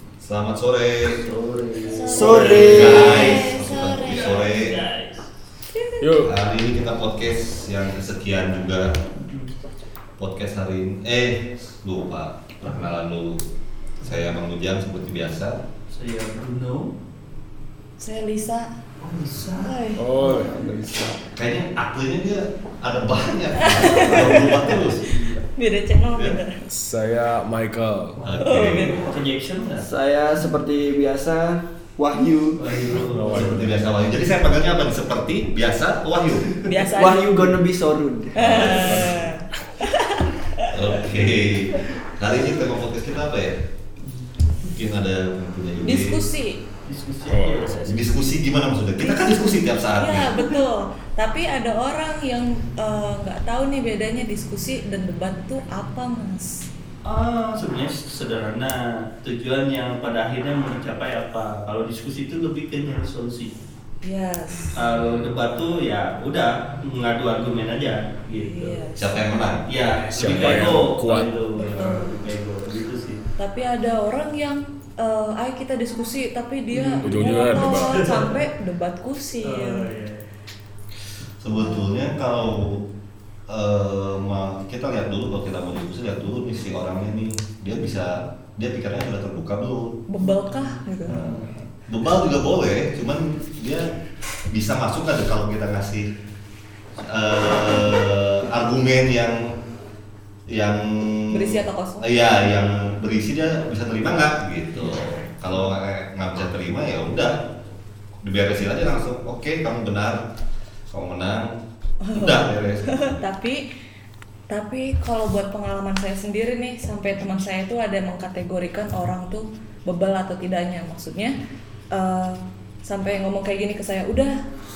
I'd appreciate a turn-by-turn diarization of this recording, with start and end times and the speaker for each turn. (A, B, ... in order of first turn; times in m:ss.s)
0:00.2-0:01.2 A
0:01.1-0:03.4 B
0:01.9-0:04.4 C
0:02.0-0:03.2 D
0:02.4-0:04.8 A
0:04.0-0:05.3 B
0:05.7-0:06.1 C
0:06.0-0:06.3 E
0:06.1-0:09.0 A
0:09.2-0:09.5 B
0:10.2-0:13.4 A
0:14.0-0:15.6 A
0:14.0-0:14.3 B
0:15.9-0:16.9 B
0:18.0-0:18.7 C
0:19.0-0:19.8 B
0:19.6-0:20.0 C
0:20.0-0:20.7 E
0:20.2-0:20.8 D
0:21.3-0:25.0 A
0:23.6-0:26.6 C
0:24.2-0:25.4 B
0:26.7-0:28.2 E
0:28.2-0:29.8 B
0:28.2-0:29.1 A
0:28.4-0:29.0 C
0:29.8-0:32.8 D
0:32.6-0:33.8 B
0:32.9-0:33.7 E
0:33.3-0:36.4 A
0:36.6-0:37.2 C
0:36.9-0:39.0 D
0:38.4-0:40.8 C
0:38.5-0:39.3 E
0:40.7-0:43.6 A
0:44.6-0:46.2 A
0:45.8-0:46.6 C
0:46.8-0:48.4 B
0:47.3-0:47.8 E
0:47.8-0:50.4 A
0:49.0-0:49.4 C
0:50.0-0:56.6 C
0:57.0-1:03.5 B
1:04.0-1:04.8 C
1:04.7-1:08.8 B
1:08.3-1:09.1 C
1:09.0-1:09.7 A
1:09.7-1:13.2 B
1:10.0-1:11.3 E
1:11.6-1:12.1 C
1:13.4-1:19.9 C
1:16.7-1:18.4 B
1:17.0-1:18.1 E
1:19.4-1:20.2 B
1:21.4-1:22.8 A
1:21.5-1:21.8 C
1:23.5-1:30.0 A
1:30.1-1:31.2 C
1:30.2-1:31.6 B
1:31.9-1:33.9 A
1:34.5-1:36.1 A
1:37.0-1:39.5 A
1:40.5-1:47.4 A
1:41.3-1:42.0 C
1:48.2-1:50.3 A
1:50.9-1:51.5 A
1:52.0-1:53.6 C
1:52.1-1:53.2 A
1:54.5-2:01.3 C
2:01.9-2:04.3 C